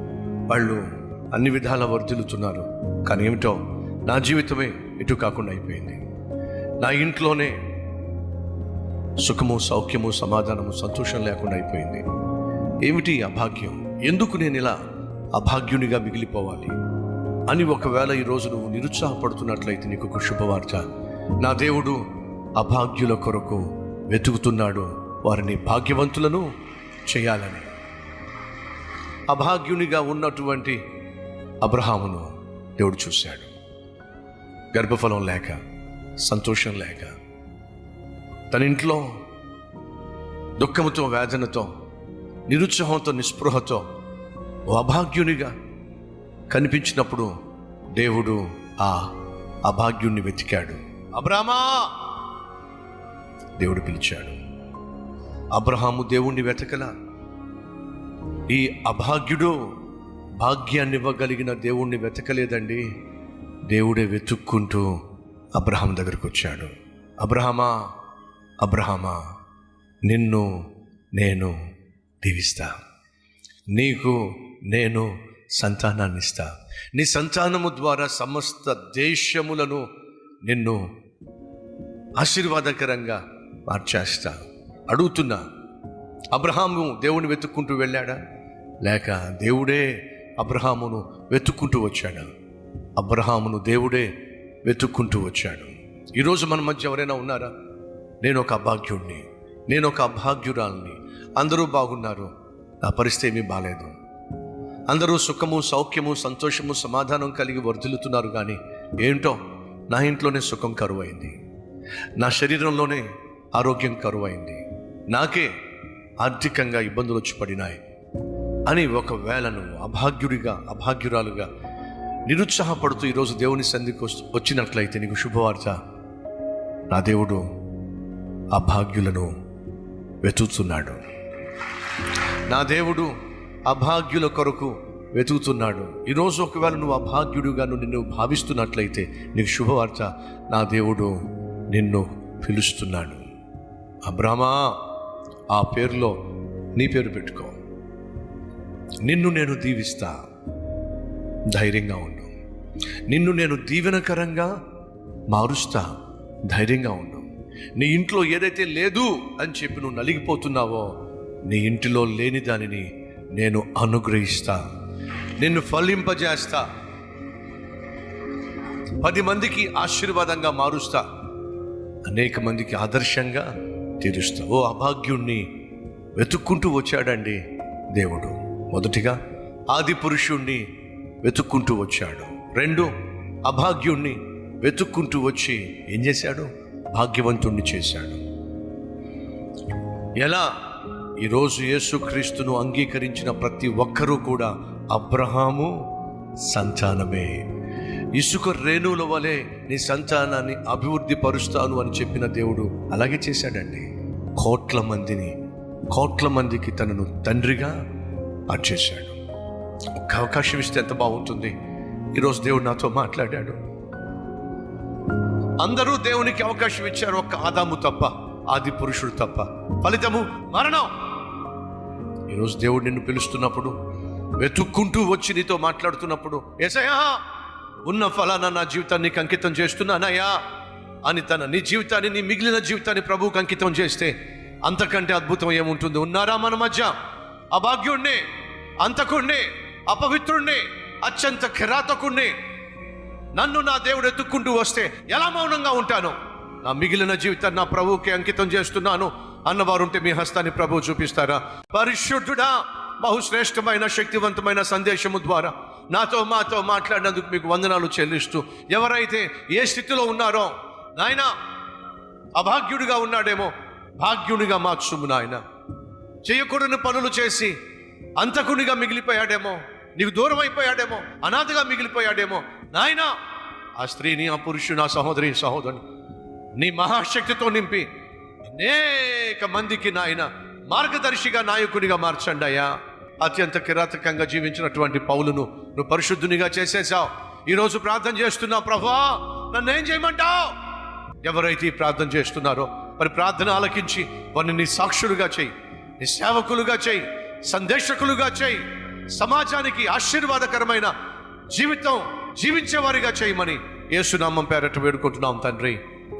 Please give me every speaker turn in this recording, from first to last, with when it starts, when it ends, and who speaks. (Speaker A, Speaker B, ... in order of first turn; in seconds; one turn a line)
Speaker A: 0.5-6.0
Speaker A: 6.8-7.6
Speaker A: 9.2-12.0
Speaker A: 12.8-14.8
Speaker A: 15.3-16.7
Speaker A: 17.5-20.8
Speaker A: 21.4-22.0
Speaker A: 22.6-26.5
Speaker A: 27.1-27.7
Speaker A: 29.3-30.8
Speaker A: 31.6-33.5
Speaker A: 34.7-35.6
Speaker A: 36.2-37.2
Speaker A: 38.5-39.1
Speaker A: 40.6-41.7
Speaker A: 42.5-43.8
Speaker A: 44.7-45.5
Speaker A: 46.5-47.3
Speaker A: 47.9-49.1
Speaker A: 49.6-52.0
Speaker A: 53.6-54.4
Speaker A: 55.5-56.9
Speaker A: 58.5-59.6
Speaker A: 60.4-62.9
Speaker A: 63.7-64.9
Speaker A: 65.5-67.8
Speaker A: 68.6-69.2
Speaker A: 70.0-70.6
Speaker A: 71.1-71.5
Speaker A: 72.2-72.8
Speaker A: 73.7-79.9
Speaker A: 80.4-80.8
Speaker A: 82.2-84.4
Speaker A: 84.9-85.4
Speaker A: 86.3-88.2
Speaker A: 88.8-92.3
Speaker A: 93.0-94.1
Speaker A: 94.6-97.5
Speaker A: 98.2-102.3
Speaker A: 102.8-104.0
Speaker A: 104.9-109.4
Speaker A: 109.9-111.3
Speaker A: 112.2-115.5
Speaker A: 116.2-117.8
Speaker A: 118.7-121.5
Speaker A: 122.3-125.8
Speaker A: 126.9-127.4
Speaker A: 128.5-129.3
Speaker A: 130.2-131.0
Speaker A: 132.5-133.1
Speaker A: 133.7-141.2
Speaker A: 141.7-143.2
Speaker A: 144.0-144.8
Speaker A: 145.5-146.2
Speaker A: 146.8-147.6
Speaker A: 149.0-150.2
Speaker A: 151.5-152.3
Speaker A: 153.1-154.5
Speaker A: 155.3-155.9
Speaker A: 156.5-164.6
Speaker A: 165.4-166.7
Speaker A: 169.0-171.0
Speaker A: 172.1-173.5
Speaker A: 174.0-175.5
Speaker A: 176.2-177.4
Speaker A: 177.9-179.2
Speaker A: 179.7-180.6
Speaker A: 181.2-182.9
Speaker A: 183.4-188.2
Speaker A: 190.2-190.5
Speaker A: 191.2-195.8
Speaker A: 196.4-197.4
Speaker A: 198.1-205.3
Speaker A: 205.9-207.8
Speaker A: 208.5-209.2
Speaker A: 209.9-211.5
Speaker A: 212.1-213.6
Speaker A: 215.6-220.9
Speaker A: 222.3-223.7
Speaker A: 224.4-227.2
Speaker A: 227.8-230.4
Speaker A: 231.0-234.1
Speaker A: 234.6-236.9
Speaker A: 237.5-238.2
Speaker A: 238.8-242.3
Speaker A: 243.3-261.3
Speaker A: 262.3-265.4
Speaker A: 266.2-267.6
Speaker A: 268.2-273.1
Speaker A: 273.8-275.8
Speaker A: 276.6-277.9
Speaker A: 278.5-290.6
Speaker A: 291.2-300.9
Speaker A: 301.5-305.8